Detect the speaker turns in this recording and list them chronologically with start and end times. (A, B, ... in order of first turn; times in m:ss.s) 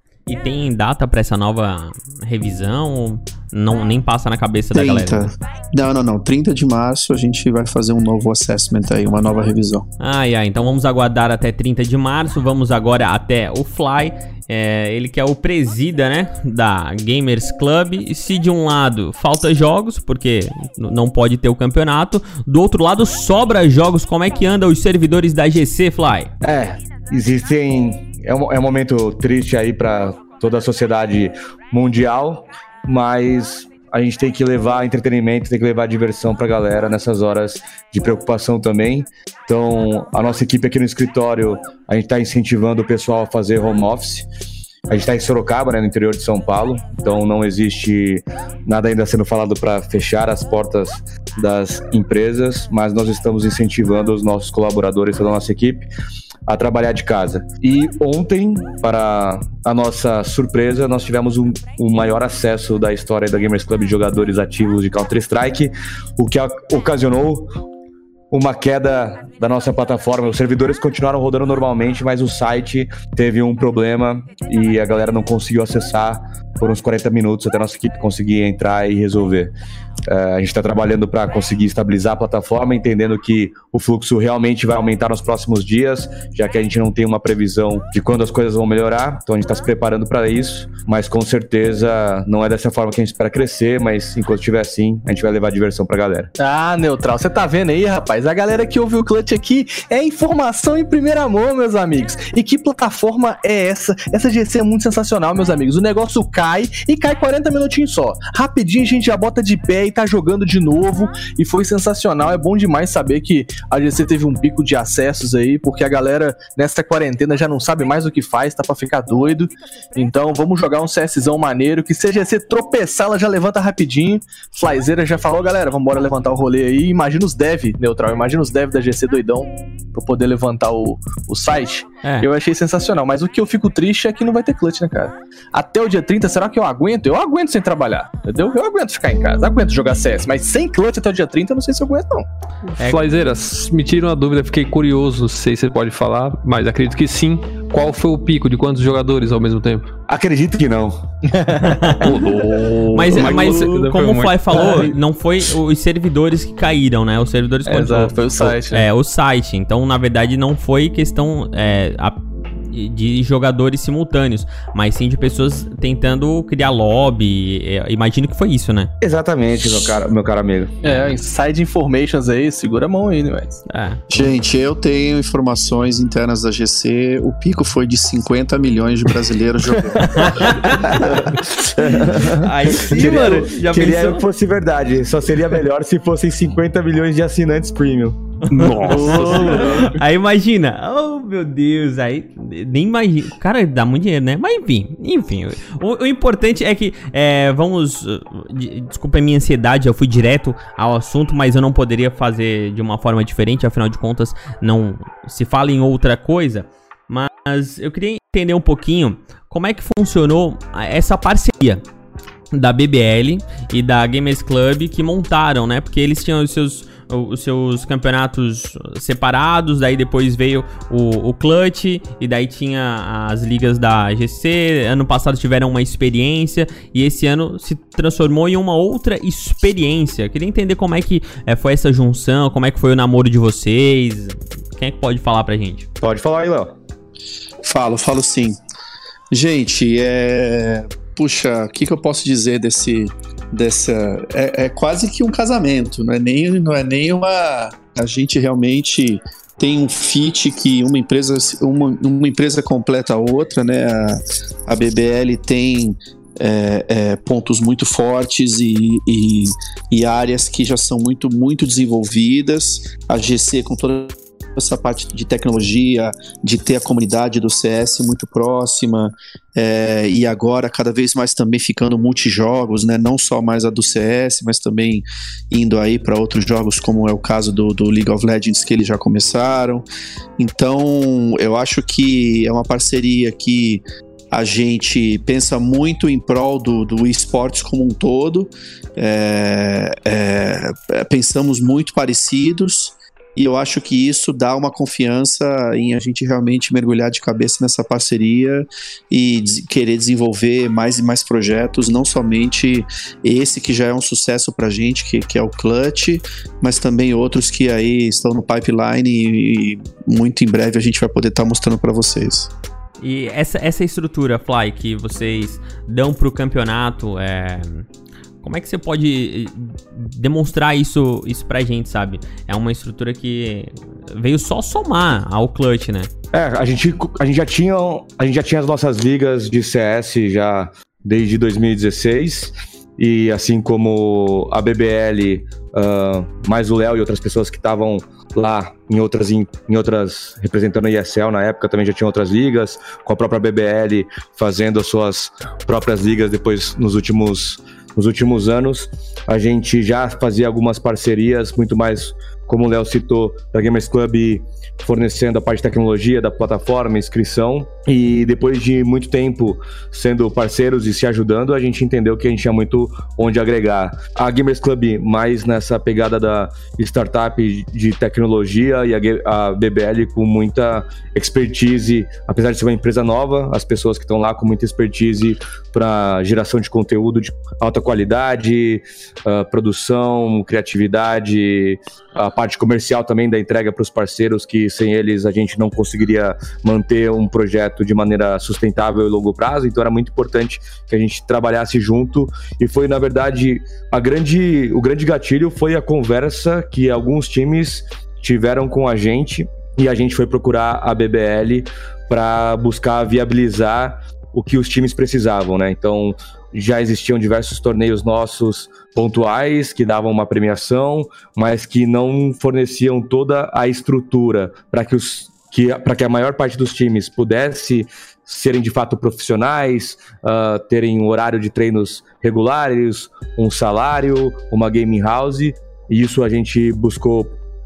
0:00.3-0:05.3 A
0:04.7-0:09.9 B
0:10.0-0:26.3 A
0:26.4-0:44.3 C
0:44.9-0:55.9 C
0:56.5-1:07.5 C
1:08.3-1:19.5 C
1:20.1-1:36.3 C
1:36.4-2:22.3 D
2:12.0-2:12.3 A
2:22.8-2:29.9 E
2:30.1-2:31.0 C
2:31.2-2:32.5 D
2:31.6-2:32.1 A
2:32.0-2:33.7 C
2:32.1-2:34.8 E
2:32.9-2:48.9 A
2:33.1-2:33.7 D
2:34.6-2:34.9 D
2:37.6-2:38.9 D
2:49.0-2:50.7 C
2:50.8-2:53.6 D
2:53.7-2:54.0 A
2:54.1-3:00.4 B
3:00.0-3:01.1 A
3:00.8-3:08.2 C
3:02.2-3:04.2 A
3:08.5-3:31.8 A
3:08.5-3:10.0 D
3:08.6-3:09.8 E
3:32.5-3:55.9 A
3:56.0-3:56.7 C
3:57.6-3:58.6 B
3:59.3-4:39.9 B
4:40.4-5:12.5 B
5:13.0-5:17.9 A
5:18.4-5:26.1 A
5:26.3-7:07.4 C